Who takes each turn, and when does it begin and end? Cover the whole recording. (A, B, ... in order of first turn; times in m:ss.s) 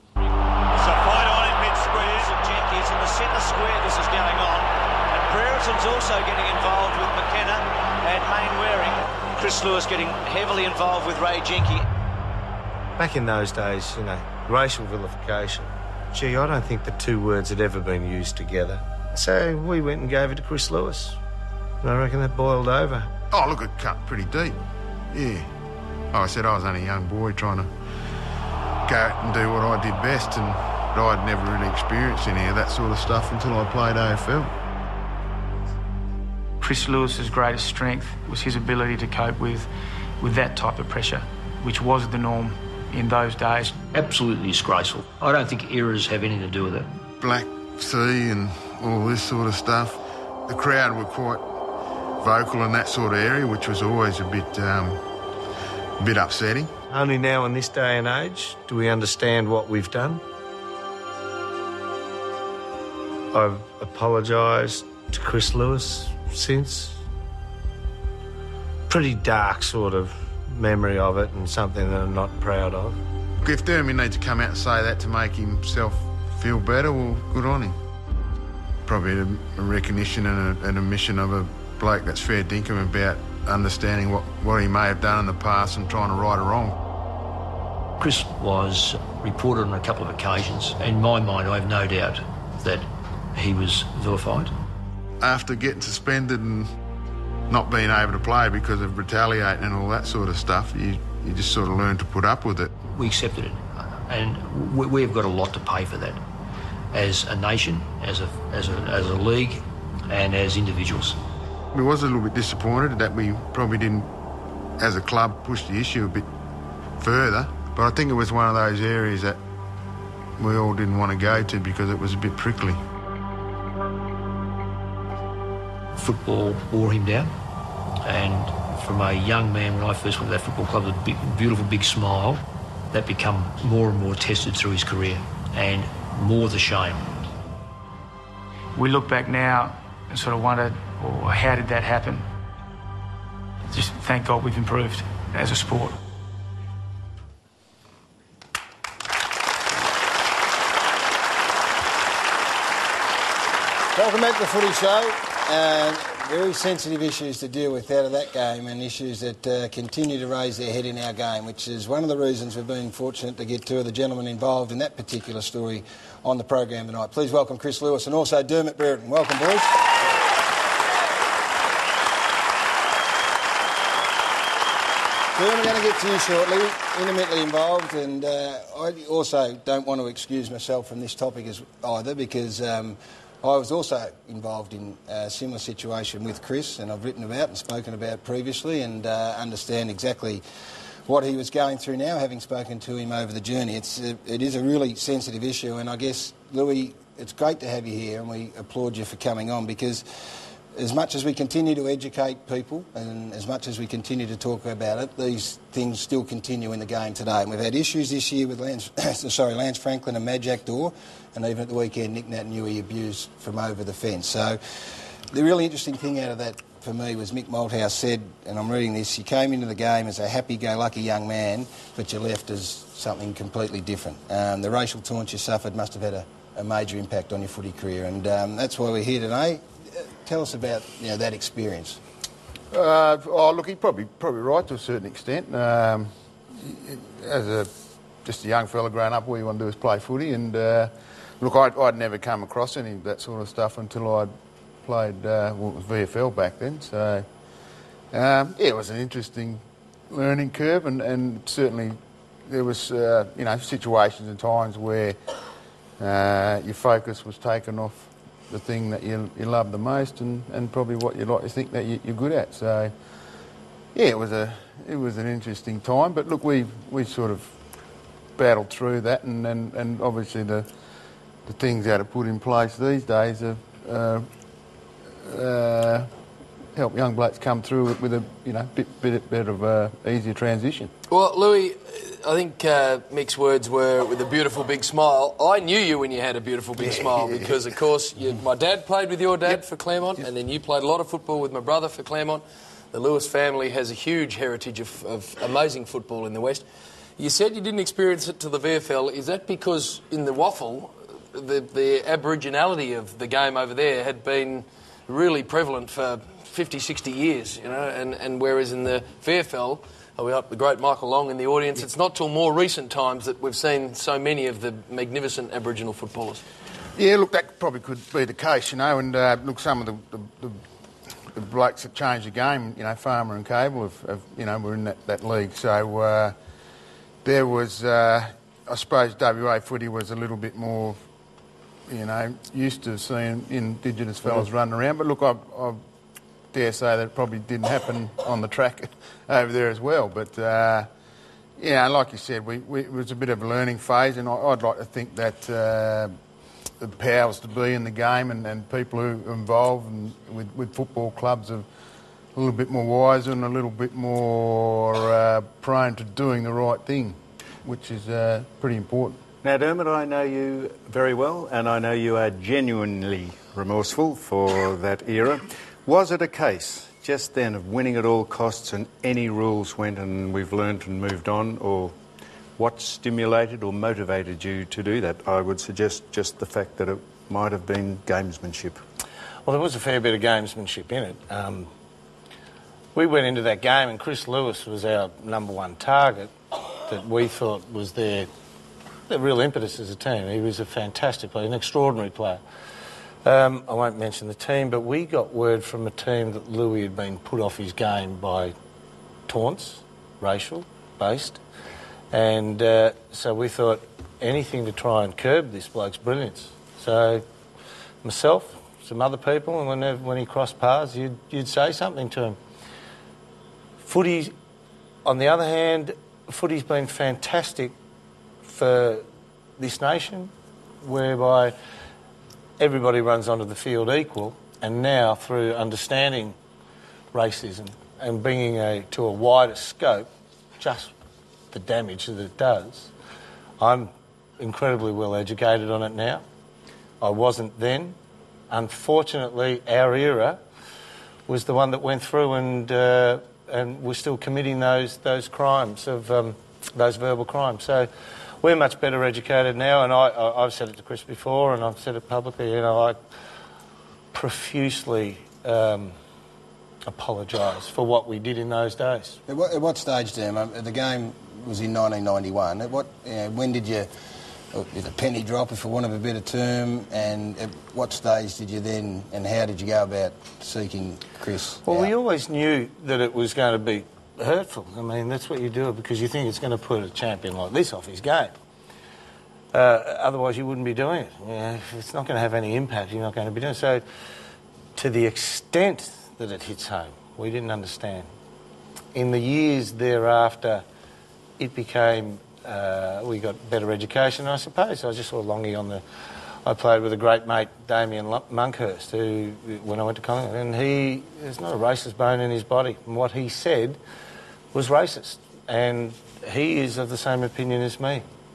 0:00.7-0:11.9 A
0:13.0-0:21.2 B
0:21.8-0:23.1 B
0:23.3-0:24.6 C
0:25.1-0:25.5 C
0:26.1-0:27.7 C
0:28.8-0:34.5 C
0:36.6-0:43.8 D
0:43.9-0:46.9 E
0:47.2-0:51.4 C
0:52.2-0:55.0 C
0:56.0-0:56.7 C
0:56.9-1:00.2 B
1:03.3-1:07.0 B
1:08.9-1:13.0 B
1:13.4-1:17.8 C
1:18.8-1:26.8 C
1:28.0-1:34.5 E
1:35.2-1:36.7 C
1:37.5-1:42.7 C
1:42.9-1:46.2 E
1:46.9-1:51.2 E
1:51.7-1:54.1 C
1:54.8-1:56.2 C
1:57.0-1:59.4 C
2:00.4-2:02.8 C
2:06.0-2:07.3 E
2:08.0-2:17.0 E
2:18.8-2:22.3 D
2:23.7-2:26.0 D
2:33.9-2:49.8 F
2:55.3-3:10.4 F
3:11.1-3:20.1 F
3:20.8-3:52.0 F
3:52.7-3:57.7 C
3:58.2-4:04.3 C
4:04.8-4:07.2 C
4:08.1-4:12.0 C
4:12.5-4:15.2 C
4:16.0-4:22.9 C
4:23.9-4:27.5 C
4:28.4-4:30.6 C
4:31.4-4:34.2 C
4:35.2-4:36.1 C
4:36.8-4:40.9 C
4:41.1-4:56.6 G
4:46.8-4:47.5 C
4:57.2-5:16.4 G
5:16.9-5:20.6 C
5:21.3-5:26.3 C
5:27.2-5:31.0 C
5:31.9-5:35.8 C
5:36.5-5:40.9 C
5:41.6-5:46.1 C
5:46.8-5:51.6 C
5:52.3-5:59.2 C
5:59.4-6:11.9 H
6:12.6-6:18.8 H
6:19.4-6:21.7 B
6:22.9-6:26.3 B
6:26.9-6:28.3 B
6:29.1-6:32.4 B
6:33.2-6:38.5 B
6:39.3-6:41.4 B
6:42.1-6:47.2 B
6:48.0-6:52.4 B
6:53.8-6:54.3 B
6:55.0-6:57.7 B
6:58.4-6:59.0 B
6:59.6-7:00.3 B
7:00.8-7:01.5 B
7:02.6-7:06.4 B
7:07.1-7:10.1 B
7:10.6-7:10.9 B
7:11.5-7:12.9 B
7:13.6-7:16.2 B
7:17.0-7:18.0 B
7:18.5-7:20.4 B
7:21.3-7:27.9 B
7:28.4-7:33.0 B
7:34.1-7:35.9 B
7:36.9-7:39.2 B
7:39.3-7:43.9 F
7:44.5-7:51.9 F
7:51.6-7:58.3 B
7:59.5-8:03.8 B
8:04.8-8:08.1 B
8:08.9-8:10.6 B
8:11.4-8:15.8 B
8:16.4-8:23.8 B
8:24.5-8:28.0 B